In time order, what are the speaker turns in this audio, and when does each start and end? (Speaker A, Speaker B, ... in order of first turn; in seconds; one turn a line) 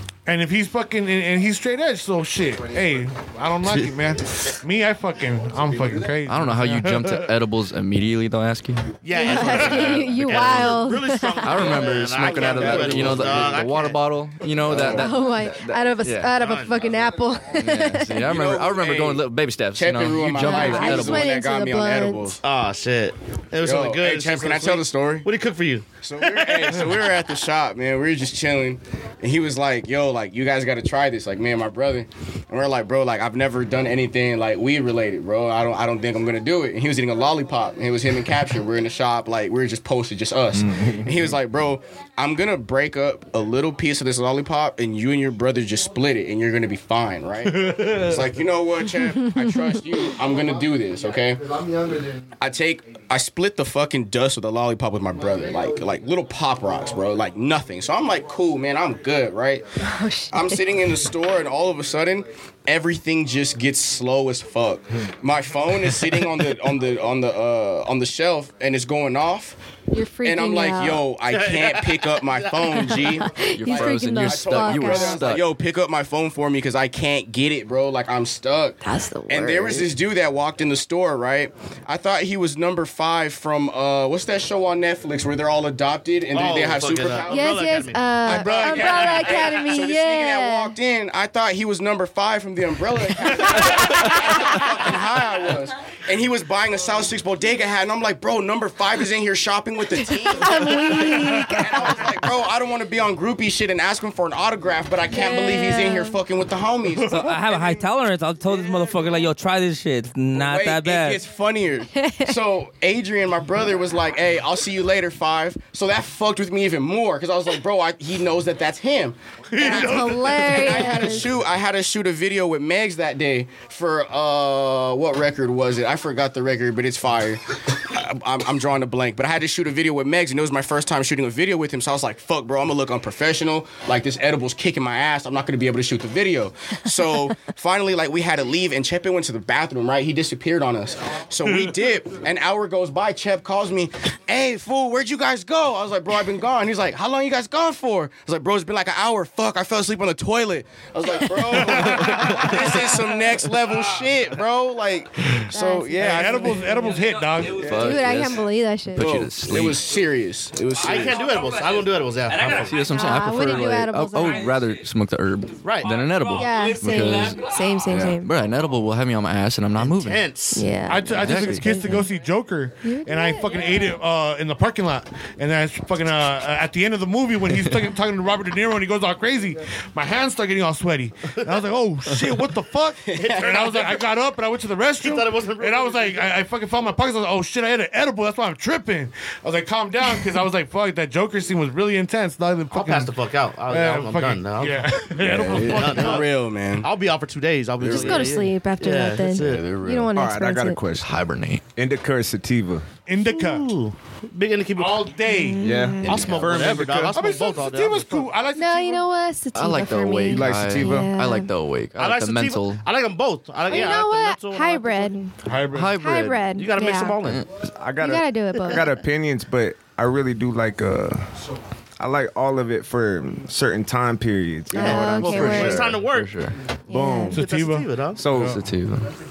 Speaker A: 0.2-7.3
Speaker B: 3.6-3.9
Speaker C: 6.2-8.9
Speaker B: 9.0-14.0
Speaker D: 9.1-11.9
Speaker A: 9.3-9.7
Speaker C: 9.8-10.6
Speaker C: 11.4-16.4
Speaker E: 12.3-13.4
Speaker E: 14.6-15.1
Speaker D: 14.7-18.3
Speaker B: 16.3-16.9
Speaker C: 17.5-21.3
Speaker E: 18.1-22.4
Speaker D: 20.4-22.4
Speaker B: 22.4-27.0
Speaker E: 23.6-25.3
Speaker E: 26.0-51.4
Speaker F: 40.5-41.3
Speaker A: 47.5-48.2
Speaker E: 52.4-59.6
Speaker D: 59.8-60.8
Speaker E: 60.3-69.6
Speaker D: 69.9-71.1
Speaker E: 70.2-87.5
Speaker B: 71.3-72.6
Speaker D: 72.6-75.3
Speaker C: 73.5-75.5
Speaker D: 78.8-79.9
Speaker B: 86.3-89.5
Speaker D: 87.3-90.7
Speaker E: 88.2-107.8
Speaker D: 100.3-101.9
Speaker D: 105.1-106.2
Speaker A: 107.0-107.3
Speaker G: 107.1-111.2
Speaker E: 108.5-109.0
Speaker E: 110.3-156.5
Speaker D: 112.0-112.3
Speaker A: 119.5-121.0
Speaker D: 119.6-121.3
Speaker A: 141.4-141.7
Speaker A: 151.4-152.5
Speaker D: 155.5-156.9
Speaker A: 155.9-157.7
Speaker G: 156.6-158.2
Speaker C: 157.6-159.8
Speaker D: 157.7-159.1
Speaker E: 159.0-161.2
Speaker B: 160.8-162.8
Speaker G: 160.8-163.2
Speaker C: 162.4-167.4
Speaker D: 162.9-164.5
Speaker G: 164.1-164.9
Speaker B: 165.6-165.9
Speaker G: 165.8-167.9
Speaker D: 166.3-168.3
Speaker E: 167.9-168.2
Speaker C: 168.2-170.2
Speaker B: 169.8-170.8
Speaker D: 170.5-172.1
Speaker A: 170.8-193.2
Speaker C: 171.1-172.0
Speaker D: 172.8-173.8
Speaker E: 183.1-183.8
Speaker B: 183.2-183.9
Speaker B: 184.9-186.3
Speaker B: 192.7-199.7
Speaker A: 193.7-196.2
Speaker E: 195.2-196.9
Speaker F: 195.2-195.6
Speaker E: 197.8-198.3
Speaker D: 197.9-200.8
Speaker E: 199.3-200.1
Speaker F: 200.1-201.2
Speaker C: 201.0-201.6
Speaker F: 201.8-202.9
Speaker A: 203.1-203.7
Speaker B: 203.2-205.1
Speaker A: 204.8-205.7
Speaker D: 205.3-206.3
Speaker F: 205.6-207.2
Speaker B: 206.0-208.3
Speaker A: 207.1-209.1
Speaker D: 208.6-211.5
Speaker C: 209.5-212.8
Speaker F: 210.3-211.1
Speaker B: 211.9-215.1
Speaker D: 213.7-215.3
Speaker A: 215.4-216.0
Speaker C: 215.7-216.5
Speaker D: 215.9-217.2
Speaker B: 216.2-217.5
Speaker F: 217.6-221.3
Speaker D: 218.0-218.9
Speaker F: 222.0-226.0
Speaker D: 224.7-225.9
Speaker B: 224.7-226.4
Speaker C: 225.9-226.6
Speaker D: 226.9-227.4
Speaker F: 226.9-227.3
Speaker B: 227.3-228.2
Speaker A: 227.3-228.6
Speaker F: 228.1-228.6
Speaker C: 228.3-229.1